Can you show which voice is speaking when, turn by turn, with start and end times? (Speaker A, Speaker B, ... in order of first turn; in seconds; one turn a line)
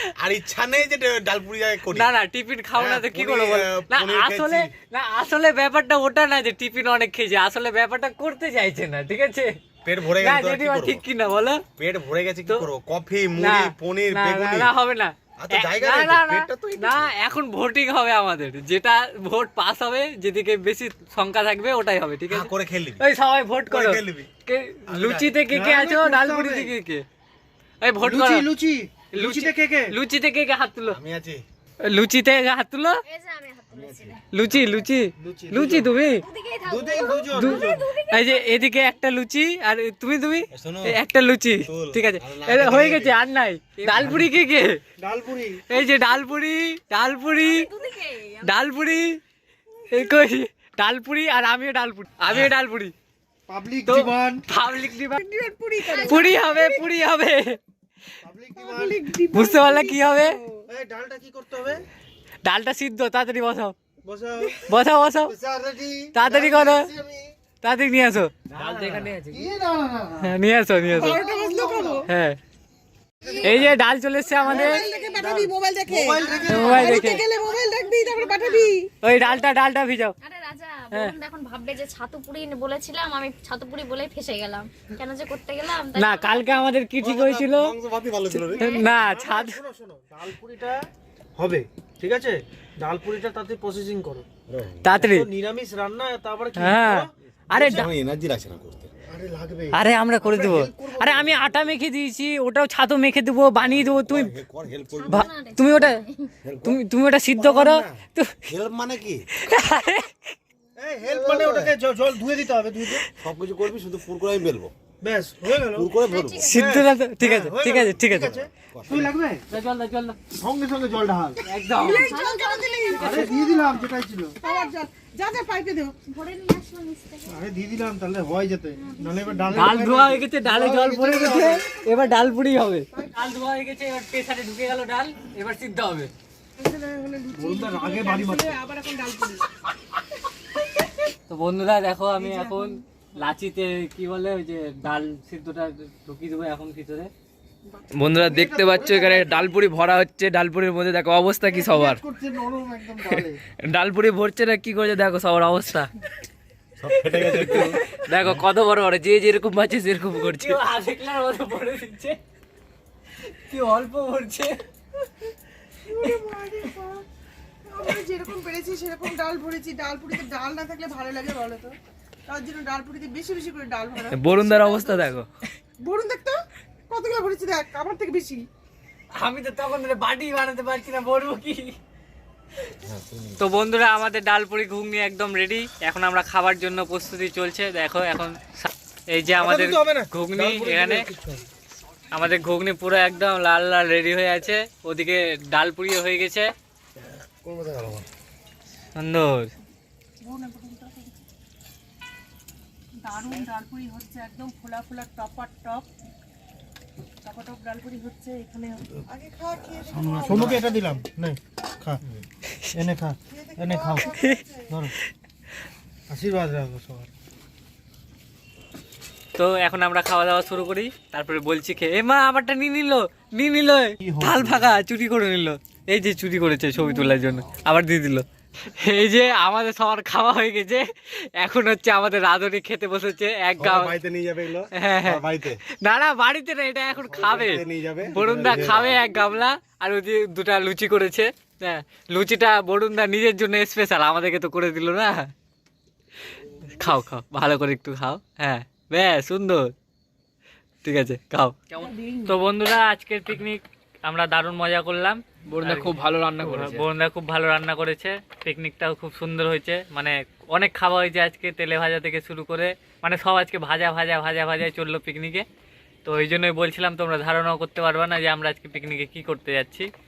Speaker A: 0.2-2.1
Speaker B: 1.9-9.5
Speaker A: 2.8-4.7
Speaker A: 9.8-11.0
Speaker B: 10.2-11.6
Speaker A: 11.8-14.7
Speaker B: 13.4-27.0
Speaker A: 15.4-17.1
Speaker A: 22.3-23.0
Speaker A: 23.7-24.3
Speaker A: 24.9-25.4
Speaker C: 25.5-26.7
Speaker B: 27.8-28.4
Speaker C: 28.0-29.9
Speaker B: 29.1-31.0
Speaker A: 30.9-31.4
Speaker B: 31.8-33.0
Speaker D: 33.0-34.2
Speaker A: 33.7-34.1
Speaker B: 34.3-36.2
Speaker C: 35.1-35.9
Speaker D: 36.2-38.9
Speaker C: 36.7-37.9
Speaker B: 37.3-44.8
Speaker A: 40.5-41.0
Speaker A: 41.7-43.2
Speaker C: 45.0-45.6
Speaker B: 45.7-47.7
Speaker D: 45.7-46.2
Speaker D: 47.4-48.7
Speaker B: 48.4-49.2
Speaker B: 49.9-52.9
Speaker A: 52.3-52.5
Speaker C: 53.5-54.5
Speaker B: 53.9-55.2
Speaker E: 55.1-56.8
Speaker D: 55.9-56.4
Speaker B: 55.9-57.6
Speaker C: 58.2-59.6
Speaker E: 58.6-60.6
Speaker B: 59.3-60.4
Speaker C: 60.7-61.8
Speaker B: 62.4-63.8
Speaker C: 64.0-64.6
Speaker B: 64.7-65.3
Speaker C: 65.3-67.3
Speaker B: 66.1-66.9
Speaker B: 67.6-68.3
Speaker F: 68.5-69.5
Speaker C: 68.6-70.3
Speaker B: 70.2-71.2
Speaker C: 70.9-72.0
Speaker E: 71.0-72.0
Speaker D: 71.1-71.6
Speaker B: 72.1-72.4
Speaker D: 73.2-73.6
Speaker C: 73.2-73.7
Speaker B: 73.4-74.8
Speaker D: 74.3-75.4
Speaker C: 74.5-77.2
Speaker E: 74.5-76.2
Speaker D: 76.2-79.5
Speaker B: 76.5-77.2
Speaker E: 76.7-78.8
Speaker B: 79.0-80.2
Speaker D: 80.2-86.6
Speaker B: 86.0-87.7
Speaker A: 87.0-88.8
Speaker D: 88.5-88.9
Speaker B: 88.5-89.6
Speaker C: 88.9-90.8
Speaker C: 91.4-94.2
Speaker A: 94.5-94.8
Speaker B: 94.8-95.3
Speaker C: 94.9-97.9
Speaker B: 96.6-97.9
Speaker A: 97.6-99.0
Speaker C: 99.1-101.3
Speaker B: 99.7-104.3
Speaker A: 101.2-101.8
Speaker A: 103.6-105.3
Speaker D: 105.0-106.3
Speaker B: 105.1-106.0
Speaker A: 106.4-106.8
Speaker B: 106.7-108.5
Speaker C: 107.3-108.0
Speaker A: 108.5-109.3
Speaker B: 109.4-110.3
Speaker C: 110.8-113.0
Speaker A: 111.0-111.7
Speaker A: 113.2-114.7
Speaker C: 115.0-115.9
Speaker A: 115.7-116.6
Speaker D: 116.0-116.7
Speaker B: 116.5-118.4
Speaker C: 116.5-119.4
Speaker A: 118.1-119.1
Speaker B: 119.5-120.2
Speaker C: 120.3-121.4
Speaker B: 121.4-122.2
Speaker E: 121.8-122.9
Speaker D: 121.9-123.8
Speaker C: 122.9-124.4
Speaker B: 123.0-123.3
Speaker D: 124.4-124.7
Speaker E: 124.7-125.9
Speaker D: 126.1-127.4
Speaker C: 127.3-131.8
Speaker D: 128.8-129.8
Speaker B: 129.5-136.1
Speaker E: 131.6-132.4
Speaker E: 132.9-133.4
Speaker E: 136.6-139.5
Speaker C: 137.3-138.6
Speaker B: 141.3-147.1
Speaker E: 142.2-142.8
Speaker F: 147.9-152.0
Speaker C: 148.1-149.5
Speaker C: 151.5-153.4
Speaker F: 153.0-155.9
Speaker A: 156.8-158.4
Speaker B: 157.2-157.7
Speaker F: 158.1-160.6
Speaker B: 160.3-162.2
Speaker B: 163.3-164.6
Speaker E: 165.9-167.1
Speaker E: 167.7-171.7
Speaker E: 172.3-175.1
Speaker F: 174.1-175.3
Speaker E: 175.8-178.4
Speaker B: 179.2-181.7
Speaker A: 182.8-183.4
Speaker B: 183.4-191.1
Speaker C: 189.4-191.4
Speaker B: 192.1-196.5
Speaker A: 197.4-198.1
Speaker B: 199.0-199.5
Speaker E: 200.2-201.2
Speaker E: 203.0-205.9
Speaker E: 207.2-211.0
Speaker C: 209.8-212.0
Speaker A: 209.9-210.6
Speaker C: 212.8-214.9
Speaker E: 213.3-214.7
Speaker B: 214.0-214.4
Speaker C: 216.1-217.1
Speaker B: 219.4-233.9
Speaker C: 224.0-224.7
Speaker A: 233.6-235.6
Speaker B: 234.7-235.2
Speaker B: 235.8-237.6
Speaker A: 236.9-239.0
Speaker C: 237.2-237.6
Speaker B: 238.1-245.3
Speaker C: 238.2-238.8
Speaker B: 246.7-249.7
Speaker B: 250.8-251.6
Speaker F: 251.7-252.0
Speaker B: 252.3-265.4
Speaker F: 255.5-256.8
Speaker B: 266.1-269.9